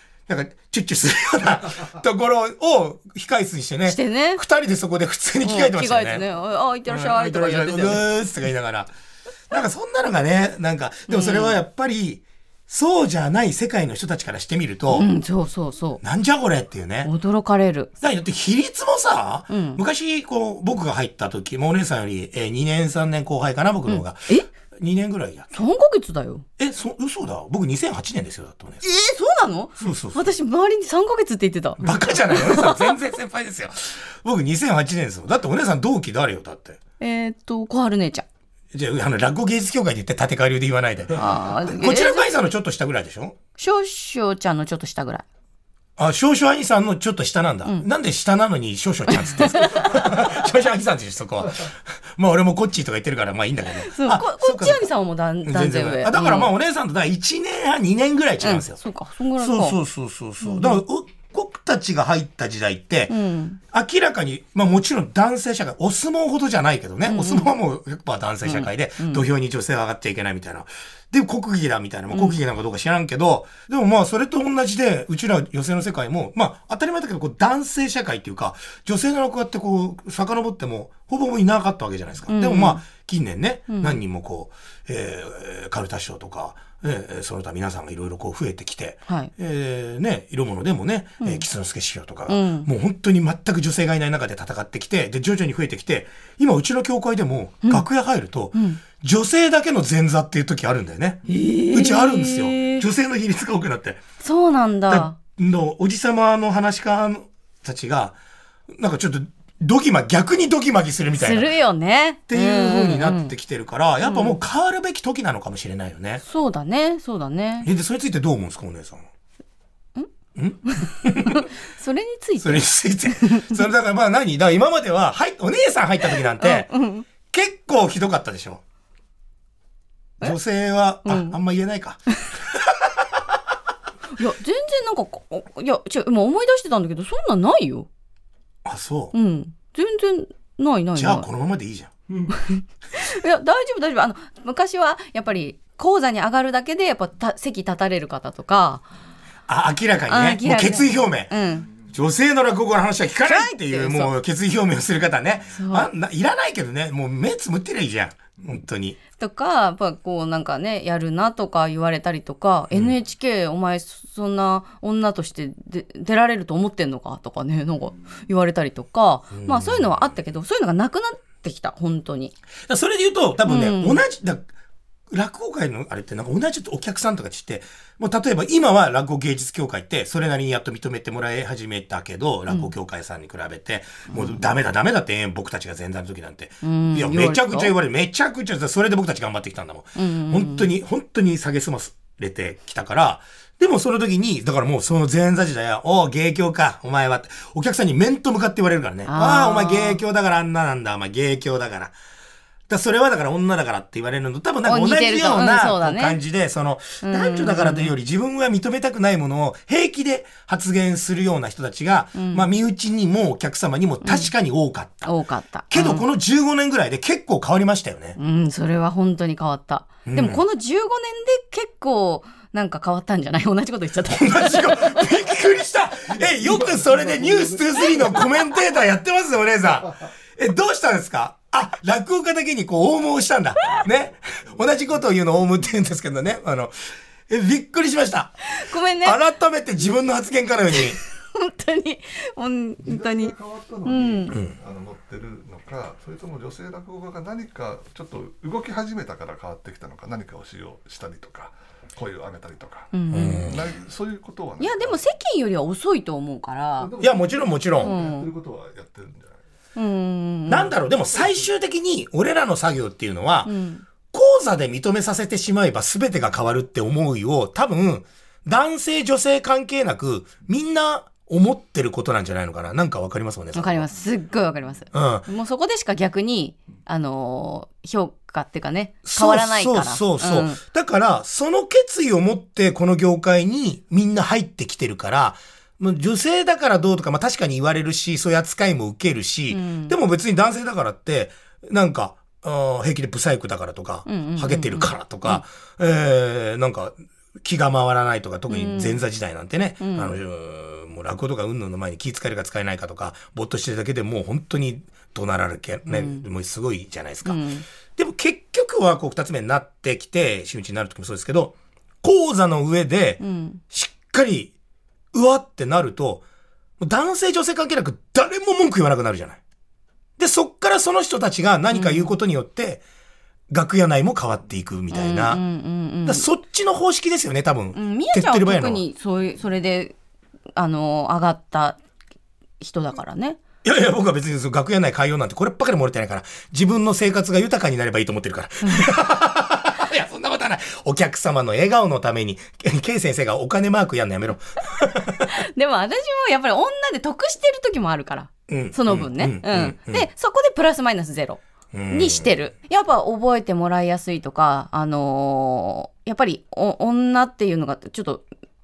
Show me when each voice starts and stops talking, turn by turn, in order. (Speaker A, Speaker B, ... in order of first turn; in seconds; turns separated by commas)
Speaker A: 0.3-6.2, Speaker B: 3.9-4.4, Speaker B: 5.4-8.1, Speaker A: 6.9-8.9, Speaker A: 9.5-15.1, Speaker B: 11.1-11.6, Speaker B: 14.9-16.0, Speaker A: 16.0-17.1, Speaker B: 17.0-17.9, Speaker A: 18.0-25.5, Speaker B: 19.5-19.8, Speaker B: 23.9-24.4, Speaker B: 25.5-26.4, Speaker A: 26.6-28.8, Speaker B: 28.8-32.9, Speaker A: 29.8-30.2, Speaker A: 31.8-36.8, Speaker B: 37.0-38.2, Speaker A: 38.7-43.4, Speaker B: 41.1-42.2, Speaker B: 43.6-45.2, Speaker A: 46.0-54.9, Speaker B: 49.1-50.1, Speaker B: 53.8-56.5, Speaker A: 55.4-58.8, Speaker B: 58.4-59.8, Speaker A: 59.4-104.0, Speaker B: 60.4-60.8, Speaker B: 63.1-63.6, Speaker B: 67.0-67.5, Speaker B: 68.4-69.2, Speaker B: 72.1-72.4, Speaker B: 82.3-82.8, Speaker B: 83.7-84.0, Speaker B: 92.3-92.7, Speaker B: 98.5-98.8, Speaker B: 101.3-102.8, Speaker B: 104.2-105.2, Speaker A: 104.9-108.2, Speaker A: 108.7-111.5, Speaker B: 111.1-113.3, Speaker A: 112.3-116.2, Speaker B: 114.0-114.4, Speaker B: 116.2-117.7, Speaker A: 117.6-119.0, Speaker A: 120.3-121.5, Speaker B: 120.7-123.6, Speaker A: 122.4-126.7, Speaker B: 126.3-127.1, Speaker A: 127.2-128.6, Speaker A: 130.2-133.2, Speaker B: 131.0-131.3, Speaker B: 134.1-137.9, Speaker A: 138.6-139.1, Speaker B: 139.1-141.3, Speaker A: 140.9-141.9, Speaker B: 142.3-148.8, Speaker A: 149.5-159.0, Speaker B: 150.1-151.7, Speaker B: 153.2-154.1, Speaker B: 155.5-155.9, Speaker B: 159.2-172.3, Speaker A: 169.3-170.1, Speaker A: 172.7-174.5, Speaker B: 173.4-174.0, Speaker A: 175.1-201.9, Speaker B: 184.1-184.4, Speaker B: 186.6-187.7, Speaker B: 189.9-190.7, Speaker B: 199.1-200.0, Speaker A: 202.7-215.1, Speaker B: 204.7-206.2, Speaker B: 207.0-207.9, Speaker B: 212.1-212.5, Speaker B: 214.0-214.3, Speaker B: 215.1-216.0, Speaker A: 215.7-218.2, Speaker B: 218.2-225.3, Speaker A: 220.0-220.4, Speaker A: 224.0-238.4, Speaker C: 226.4-227.6, Speaker B: 227.8-228.3, Speaker B: 238.4-239.2, Speaker A: 239.0-241.0, Speaker B: 240.7-244.3, Speaker C: 242.8-255.0, Speaker B: 252.9-253.6, Speaker A: 253.1-253.7, Speaker B: 254.6-256.9, Speaker C: 256.8-259.4, Speaker A: 257.0-257.9, Speaker B: 257.8-258.3, Speaker B: 259.8-260.7, Speaker A: 260.5-263.5, Speaker B: 263.4-263.8, Speaker A: 264.1-273.9, Speaker B: 273.5-280.6, Speaker A: 274.9-275.3, Speaker A: 279.0-307.4, Speaker B: 289.5-289.9, Speaker B: 294.1-295.4, Speaker B: 298.5-299.0, Speaker B: 299.8-300.1, Speaker B: 305.9-306.2, Speaker B: 307.2-307.6, Speaker A: 307.9-314.5, Speaker B: 313.2-313.6, Speaker A: 315.1-316.2, Speaker A: 316.8-319.4, Speaker A: 320.2-322.8, Speaker B: 321.7-322.1, Speaker A: 323.5-325.4, Speaker B: 324.9-326.2, Speaker A: 326.0-328.8, Speaker B: 327.7-329.9, Speaker B: 330.6-331.8, Speaker B: 332.6-333.4, Speaker A: 333.6-345.3, Speaker B: 338.6-338.9, Speaker B: 345.2-358.2, Speaker A: 348.5-350.1, Speaker A: 351.7-352.3